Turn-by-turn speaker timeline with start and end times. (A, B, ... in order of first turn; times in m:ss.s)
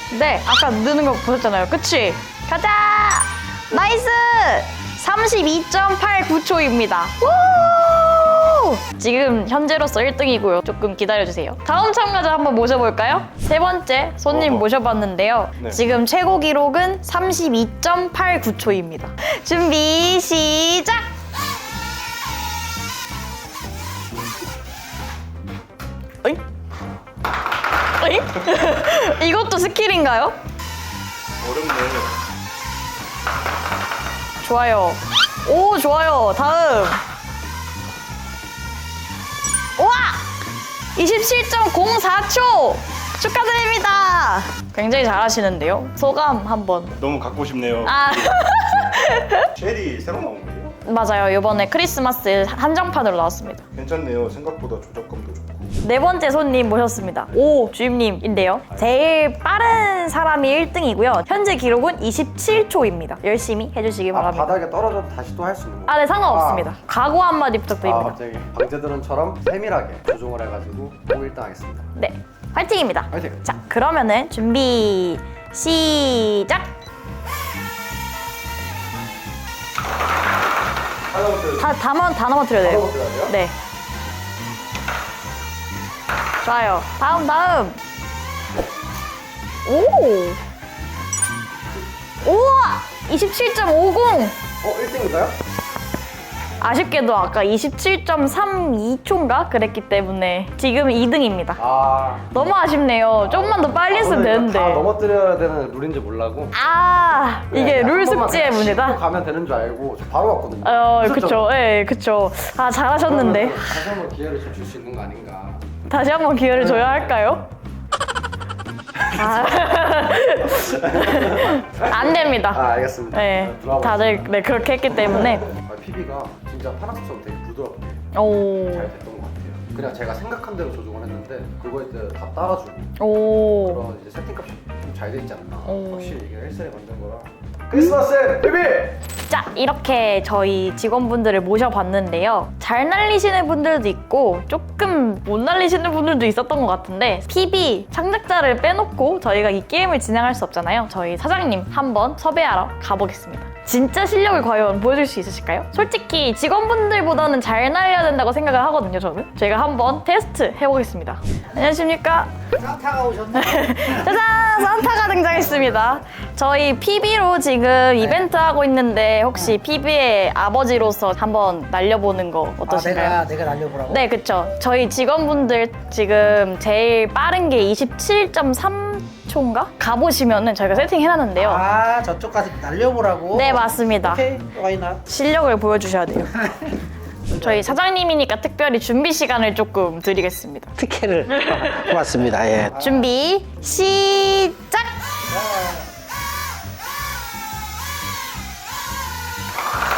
0:00.1-0:21.1 A
0:14.3-0:14.6 B
0:28.0-0:30.4 A
0:31.4-0:32.2 B
0:34.4-0:37.0 A
0:39.8-0:40.3 A
0:41.0-0:47.0 A
0:47.0-0:48.4 B
0:47.8-0:49.5 A
0:49.6-0:50.7 B
0:50.8-0:53.6 A
0:53.7-0:55.7 B
0:55.8-1:04.5 A
1:04.1-1:06.7 C
1:05.9-1:08.2 A
1:07.8-1:11.9 C
1:12.0-1:16.7 A
1:13.1-1:13.4 C
1:21.1-1:21.5 C
1:21.5-1:23.5 A
1:22.6-1:23.3 C
1:26.4-1:27.8 A
1:29.6-1:30.4 A
1:32.2-1:34.4 A
1:34.6-1:35.4 C
1:36.6-1:41.6 A
1:41.6-1:42.3 C
1:42.3-1:44.8 A
1:43.2-1:46.6 C
1:46.5-1:49.0 A
1:47.5-1:51.5 C
1:50.6-1:53.7 A
1:53.1-1:55.6 C
1:55.9-1:57.5 A
1:59.0-2:05.5 A
2:00.7-2:04.3 C
2:05.4-2:08.0 C
2:08.1-2:08.9 A
2:08.6-2:12.9 C
2:13.0-2:13.8 A
2:13.5-2:19.0 C
2:15.6-2:16.2 A
2:19.3-2:42.3 A
2:42.6-2:43.3 D
2:42.7-2:43.3 E
2:43.3-2:53.2 A
2:52.7-2:53.9 E
2:52.9-2:53.5 D
2:53.8-3:01.7 A
3:01.4-3:03.4 E
3:01.5-3:04.9 D
3:03.3-3:04.3 A
3:04.3-3:05.0 E
3:05.0-3:06.5 A
3:07.3-3:10.7 A
3:10.8-3:13.1 D
3:11.3-3:12.0 A
3:12.8-3:15.0 A
3:15.4-3:15.7 D
3:15.4-3:15.8 E